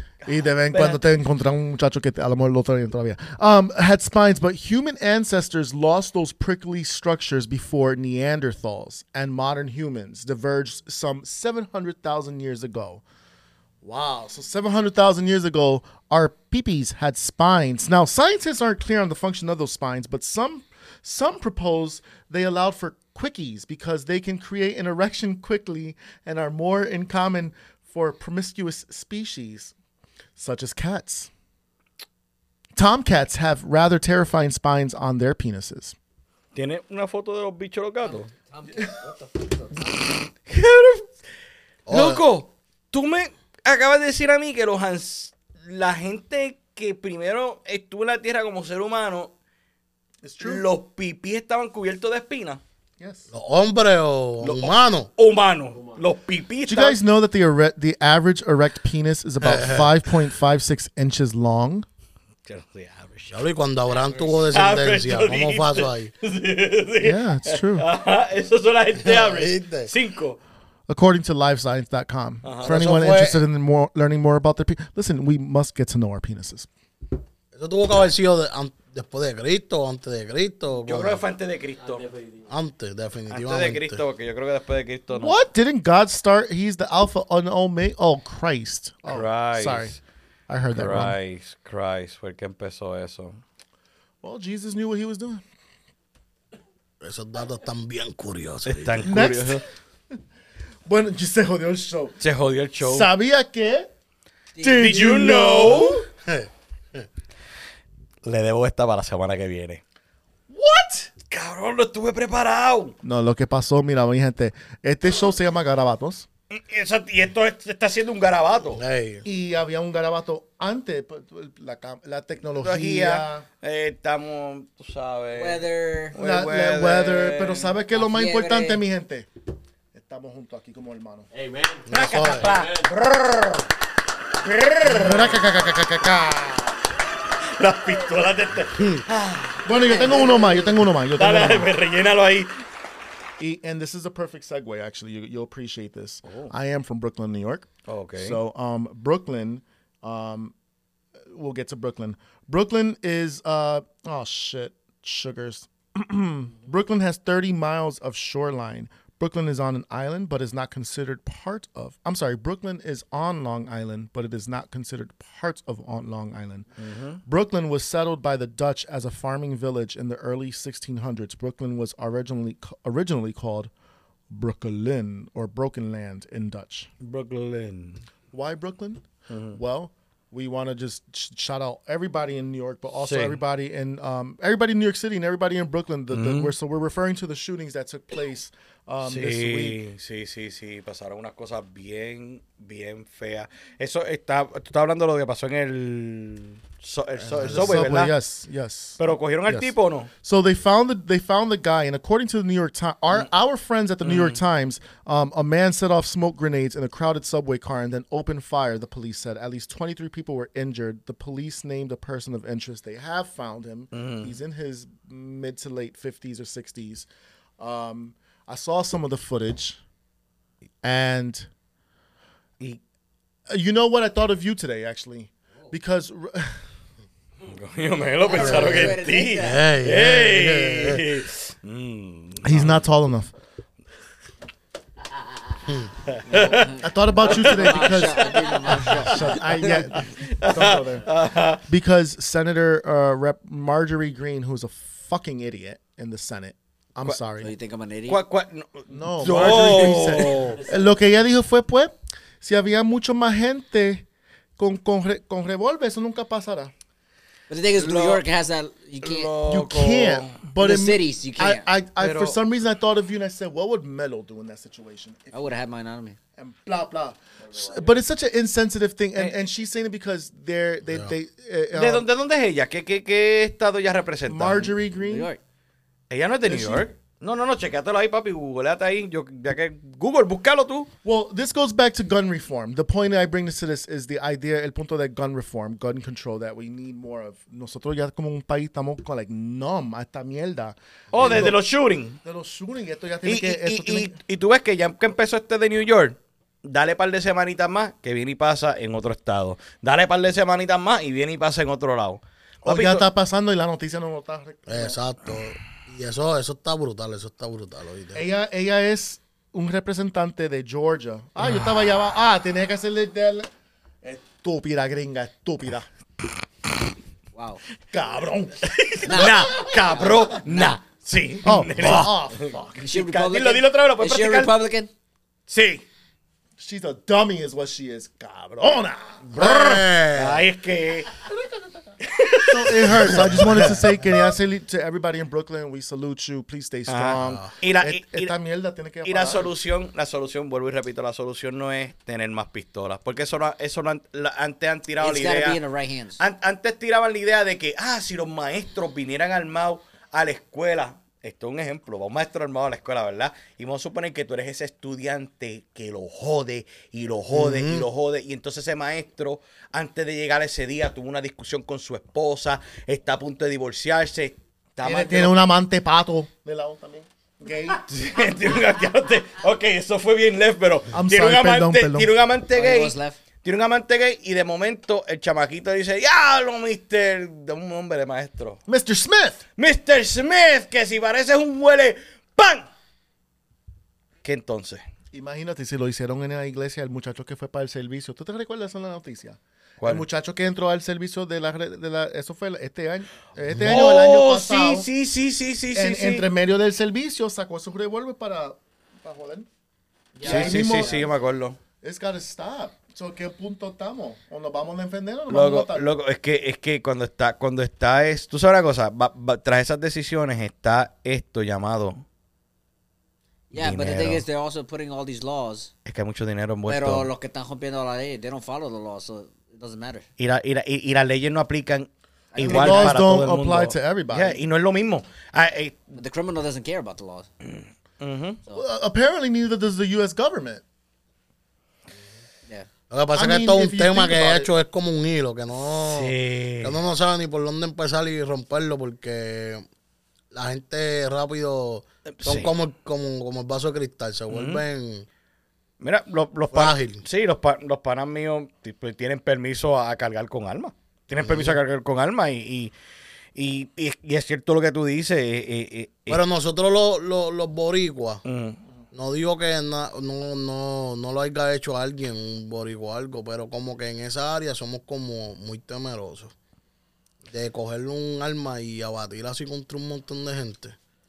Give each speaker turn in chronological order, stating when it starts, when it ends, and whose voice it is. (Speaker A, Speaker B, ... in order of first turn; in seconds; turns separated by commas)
Speaker A: 0.2-13.0, Speaker B: 0.7-1.0, Speaker C: 13.8-14.3, Speaker A: 14.3-29.7, Speaker A: 30.4-31.3, Speaker A: 32.8-36.0, Speaker B: 36.5-38.3, Speaker D: 38.0-40.1, Speaker B: 39.8-41.1, Speaker C: 41.9-42.2, Speaker B: 41.9-49.3, Speaker A: 50.2-50.7, Speaker B: 50.4-52.6, Speaker A: 53.0-53.3, Speaker C: 53.3-55.1, Speaker B: 54.4-57.0, Speaker E: 55.7-56.1, Speaker A: 56.7-61.9, Speaker C: 59.4-59.9, Speaker B: 62.5-63.5, Speaker C: 63.3-66.1, Speaker B: 64.5-70.4, Speaker A: 67.0-67.9, Speaker C: 69.0-69.9, Speaker A: 70.9-76.7, Speaker B: 72.4-72.8, Speaker C: 72.6-73.4, Speaker C: 77.5-81.2, Speaker B: 80.9-82.1, Speaker E: 81.8-82.5, Speaker C: 82.5-84.0, Speaker B: 83.3-85.4, Speaker A: 85.1-90.0, Speaker B: 89.1-90.0, Speaker A: 90.5-91.2, Speaker B: 90.7-93.4, Speaker A: 94.2-95.4, Speaker C: 97.0-99.1, Speaker B: 98.7-99.6, Speaker A: 99.0-99.6, Speaker A: 100.9-102.2, Speaker B: 102.2-103.1, Speaker A: 102.8-103.9, Speaker D: 104.5-105.0, Speaker A: 104.6-106.1, Speaker B: 104.8-106.0, Speaker C: 106.3-107.1, Speaker B: 108.2-109.8, Speaker A: 110.5-111.1, Speaker B: 111.3-113.0, Speaker A: 113.0-116.3, Speaker B: 116.5-118.8, Speaker C: 118.8-119.3, Speaker A: 119.2-123.5, Speaker B: 122.6-127.7, Speaker D: 125.3-126.1, Speaker A: 126.2-129.3, Speaker D: 127.9-128.8, Speaker A: 129.9-131.3, Speaker E: 131.3-132.9, Speaker B: 131.9-133.7, Speaker C: 131.9-132.5, Speaker B: 134.4-135.4, Speaker A: 134.8-136.8, Speaker B: 137.5-140.4, Speaker C: 138.8-139.0, Speaker A: 139.6-141.7, Speaker D: 140.0-140.5, Speaker B: 141.1-142.6, Speaker A: 143.4-150.5, Speaker B: 146.3-146.5, Speaker B: 147.9-148.4, Speaker A: 151.3-166.7, Speaker B: 166.8-167.2, Speaker A: 167.2-173.7, Speaker A: 174.3-176.9, Speaker B: 177.0-178.0, Speaker A: 178.3-189.8, Speaker B: 179.3-179.6, Speaker B: 183.0-183.4, Speaker B: 186.1-186.5, Speaker B: 189.0-198.1, Speaker C: 197.2-197.9, Speaker A: 197.4-217.1, Speaker B: 199.0-200.1, Speaker B: 204.0-204.4, Speaker B: 213.9-214.3, Speaker A: 217.6-219.8, Speaker A: 220.8-221.5, Speaker A: 223.5-226.6, Speaker B: 227.4-232.9, Speaker D: 228.2-229.7, Speaker C: 228.3-231.0, Speaker A: 232.4-233.3, Speaker B: 236.0-238.1, Speaker D: 236.3-239.9, Speaker A: 236.3-241.1, Speaker B: 238.9-239.1, Speaker B: 240.0-241.6, Speaker A: 241.6-247.5, Speaker D: 247.4-248.2, Speaker B: 248.1-250.6, Speaker A: 248.9-254.1, Speaker E: 249.7-251.0, Speaker A: 254.6-256.7, Speaker D: 257.5-259.4, Speaker B: 257.8-258.2, Speaker B: 259.0-260.4, Speaker A: 259.5-265.6, Speaker D: 260.6-261.6, Speaker B: 262.0-262.4, Speaker D: 265.3-266.2, Speaker A: 266.4-272.1, Speaker E: 267.4-268.0, Speaker C: 270.9-271.1, Speaker B: 271.8-274.7, Speaker A: 274.3-275.3, Speaker D: 274.9-275.4, Speaker B: 276.1-280.9, Speaker A: 276.4-276.9, Speaker A: 281.0-291.6, Speaker B: 291.1-292.2, Speaker A: 292.2-294.2, Speaker B: 293.2-303.1, Speaker A: 302.6-305.0, Speaker C: 304.7-308.2, Speaker A: 308.1-313.5, Speaker A: 314.0-315.9, Speaker D: 317.3-317.6, Speaker A: 317.9-319.5, Speaker B: 318.6-324.5, Speaker D: 319.1-320.8, Speaker A: 321.4-322.8, Speaker D: 322.8-324.9, Speaker B: 325.5-325.8, Speaker A: 326.6-329.5, Speaker B: 329.3-331.1, Speaker C: 329.4-330.4, Speaker A: 331.2-339.5, Speaker B: 332.0-333.7, Speaker C: 333.1-333.6, Speaker B: 336.9-338.3, Speaker C: 337.2-337.5, Speaker B: 339.1-345.6, Speaker D: 345.0-346.2, Speaker B: 346.2-365.4, Speaker C: 357.3-357.9, Speaker A: 364.8-367.8, Speaker B: 367.9-378.6, Speaker A: 370.9-372.1, Speaker D: 372.5-373.2, Speaker A: 378.7-379.4, Speaker B: 379.6-382.7, Speaker B: 384.2-384.8, Speaker A: 385.1-394.9, Speaker B: 393.6-396.3, Speaker A: 395.7-399.5, Speaker D: 400.2-400.9, Speaker A: 400.2-401.1, Speaker B: 400.2-401.6, Speaker A: 401.8-405.9, Speaker B: 405.3-412.0, Speaker D: 413.5-415.7, Speaker B: 413.6-414.3, Speaker B: 415.9-417.1, Speaker D: 416.7-420.1, Speaker B: 420.2-425.8, Speaker D: 422.3-423.0, Speaker A: 422.4-424.4, Speaker D: 425.9-427.3, Speaker B: 427.4-428.4, Speaker A: 428.5-430.6, Speaker C: 432.9-439.6, Speaker A: 433.1-434.5, Speaker B: 435.9-436.8, Speaker C: 440.3-445.1, Speaker B: 442.1-442.5, Speaker B: 444.3-444.6, Speaker B: 445.8-452.7, Speaker C: 446.5-447.0, Speaker C: 451.2-451.6, Speaker B: 453.4-456.2, Speaker C: 456.1-458.2, Speaker B: 458.2-458.6, Speaker C: 458.9-466.3, Speaker C: 467.3-470.8